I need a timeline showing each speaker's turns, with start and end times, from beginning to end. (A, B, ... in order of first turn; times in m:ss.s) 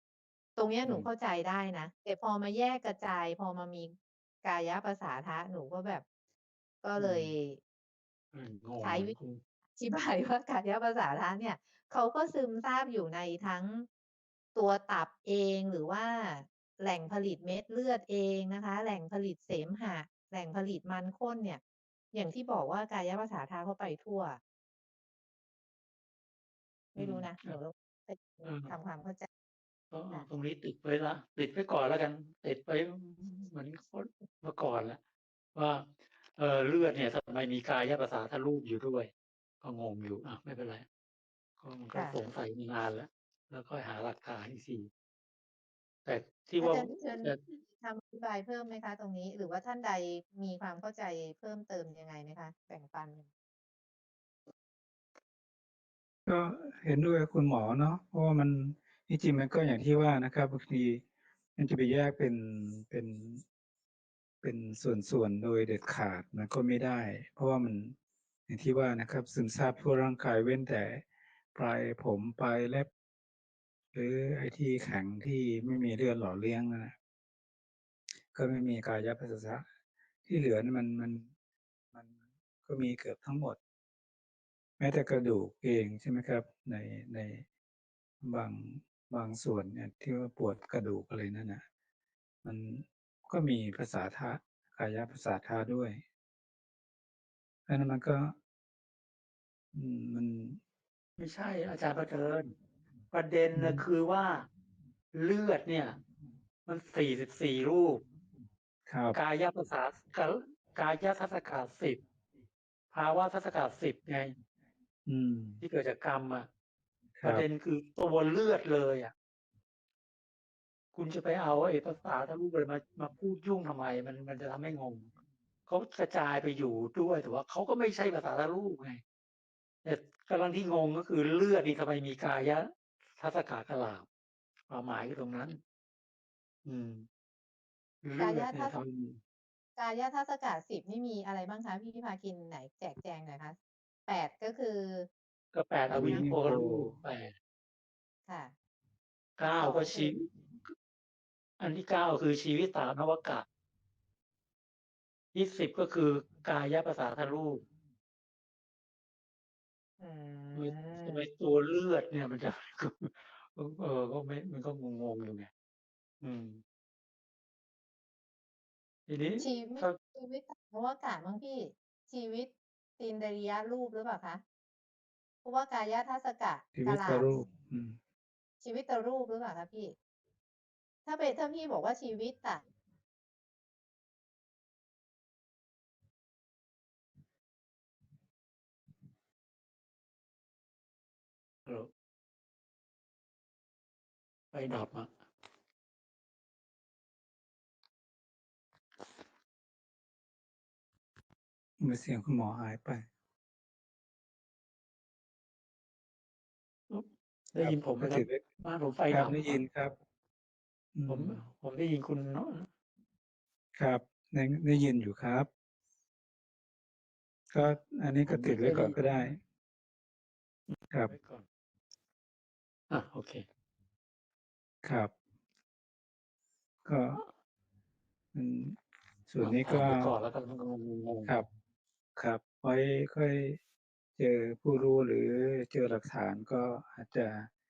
0:00.6-0:06.0 A
0:06.8-0:07.6 A
0:07.0-0:07.3 B
0:08.3-0:09.4 B
0:08.8-0:09.2 A
0:09.8-0:13.9 A
0:14.6-0:21.6 A
0:22.1-0:24.4 A
0:27.0-0:29.3 A
0:27.0-0:27.6 B
0:28.4-0:28.7 B
0:29.9-0:35.0 B
0:35.6-0:39.1 B
0:39.6-0:40.9 B
0:41.6-0:44.9 B
0:46.0-0:47.4 B
0:46.6-0:53.3 A
0:56.3-1:01.0 C
1:01.6-1:03.4 C
1:04.4-1:07.9 C
1:08.5-1:11.0 C
1:11.5-1:12.9 C
1:13.9-1:16.9 C
1:18.3-1:19.7 C
1:20.2-1:21.3 C
1:22.6-1:23.6 C
1:24.8-1:27.4 C
1:28.2-1:31.6 C
1:32.4-1:36.0 C
1:37.7-1:38.3 C
1:39.7-1:40.6 C
1:41.2-1:42.6 B
1:43.1-1:44.5 B
1:43.6-1:43.8 C
1:45.1-1:46.0 B
1:46.7-1:48.0 B
1:48.9-1:49.2 C
1:49.1-1:52.0 B
1:52.9-1:54.3 B
1:55.1-1:55.6 C
1:55.6-1:56.5 B
1:57.2-1:57.5 C
1:57.2-1:59.1 B
2:00.9-2:05.1 B
2:05.7-2:09.0 B
2:09.8-2:14.1 B
2:14.7-2:15.6 B
2:16.6-2:17.1 B
2:18.0-2:19.2 B
2:18.2-2:18.8 A
2:19.8-2:25.1 A
2:25.5-2:27.4 B
2:25.9-2:27.0 C
2:28.3-2:28.5 A
2:29.4-2:30.7 B
2:29.6-2:30.2 A
2:31.6-2:33.5 B
2:35.3-2:37.6 B
2:40.0-2:41.3 A
2:40.6-2:45.5 B
2:46.2-2:46.6 B
2:49.1-2:50.0 B
2:49.4-2:54.4 A
2:55.4-2:57.3 A
2:56.7-2:58.0 C
2:58.6-3:00.0 A
3:01.1-3:02.6 A
3:11.7-3:11.9 B
3:14.5-3:15.1 B
3:21.8-3:23.0 C
3:26.9-3:29.4 B
3:27.6-3:28.4 C
3:29.1-3:30.0 C
3:31.0-3:31.4 C
3:31.1-3:32.7 B
3:33.8-3:35.5 C
3:37.5-3:39.4 C
3:38.3-3:39.0 B
3:40.7-3:41.5 B
3:42.9-3:43.4 B
3:44.8-3:45.1 C
3:46.8-3:47.2 C
3:48.3-3:48.8 C
3:49.3-3:50.1 C
3:49.4-3:51.4 B
3:52.2-3:53.6 C
3:54.2-3:57.5 C